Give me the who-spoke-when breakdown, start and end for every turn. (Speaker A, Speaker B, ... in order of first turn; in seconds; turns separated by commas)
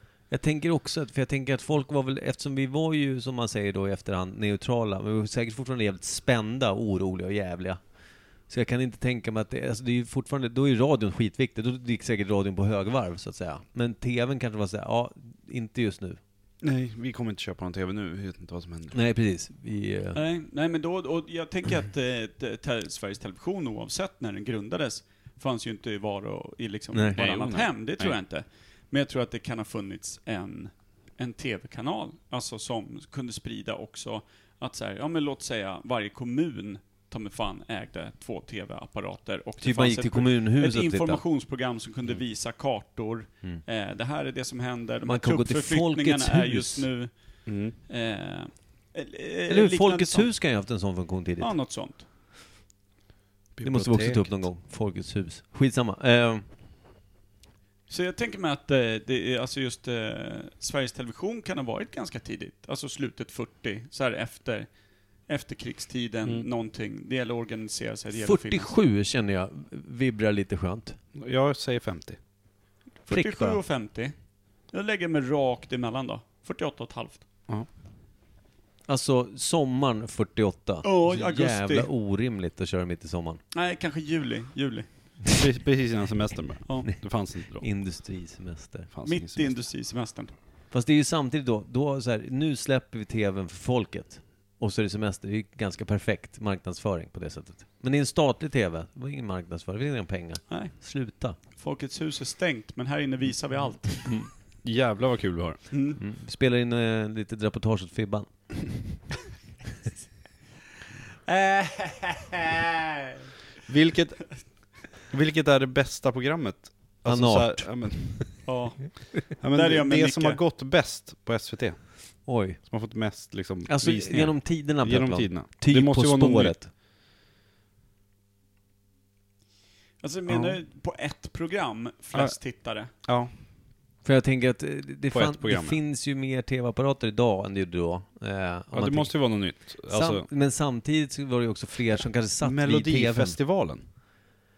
Speaker A: 0.3-7.8, Speaker A: 8.5-16.2, Speaker B: 16.6-19.0, Speaker A: 18.9-20.2, Speaker C: 20.1-50.2, Speaker A: 26.9-27.2, Speaker B: 27.1-28.2, Speaker A: 39.6-41.2, Speaker A: 45.0-46.9, Speaker B: 47.5-47.7, Speaker A: 49.5-51.5, Speaker C: 51.4-52.0, Speaker B: 53.5-54.4, Speaker A: 53.6-56.4, Speaker C: 57.9-64.7, Speaker C: 65.3-68.7, Speaker A: 68.1-71.0, Speaker B: 71.1-72.2, Speaker C: 73.1-74.1, Speaker A: 73.1-73.6, Speaker C: 74.7-77.2, Speaker A: 78.9-83.4, Speaker C: 80.8-81.9, Speaker C: 83.5-84.9, Speaker B: 85.3-87.7, Speaker A: 87.6-88.9, Speaker B: 88.9-89.5, Speaker C: 89.0-90.3, Speaker A: 90.7-101.4, Speaker C: 101.5-104.1, Speaker B: 104.6-105.6, Speaker C: 105.7-106.0, Speaker A: 106.0-108.8, Speaker C: 111.2-113.3, Speaker B: 113.7-118.4, Speaker A: 117.0-118.3, Speaker C: 118.4-120.4, Speaker B: 119.4-122.0, Speaker A: 122.2-122.6, Speaker B: 122.6-126.5, Speaker A: 123.7-126.7, Speaker C: 130.0-132.9, Speaker B: 130.3-130.6, Speaker B: 133.0-133.3, Speaker A: 134.0-139.2, Speaker B: 135.1-135.8, Speaker B: 138.7-140.3, Speaker A: 139.8-143.4, Speaker B: 142.4-143.8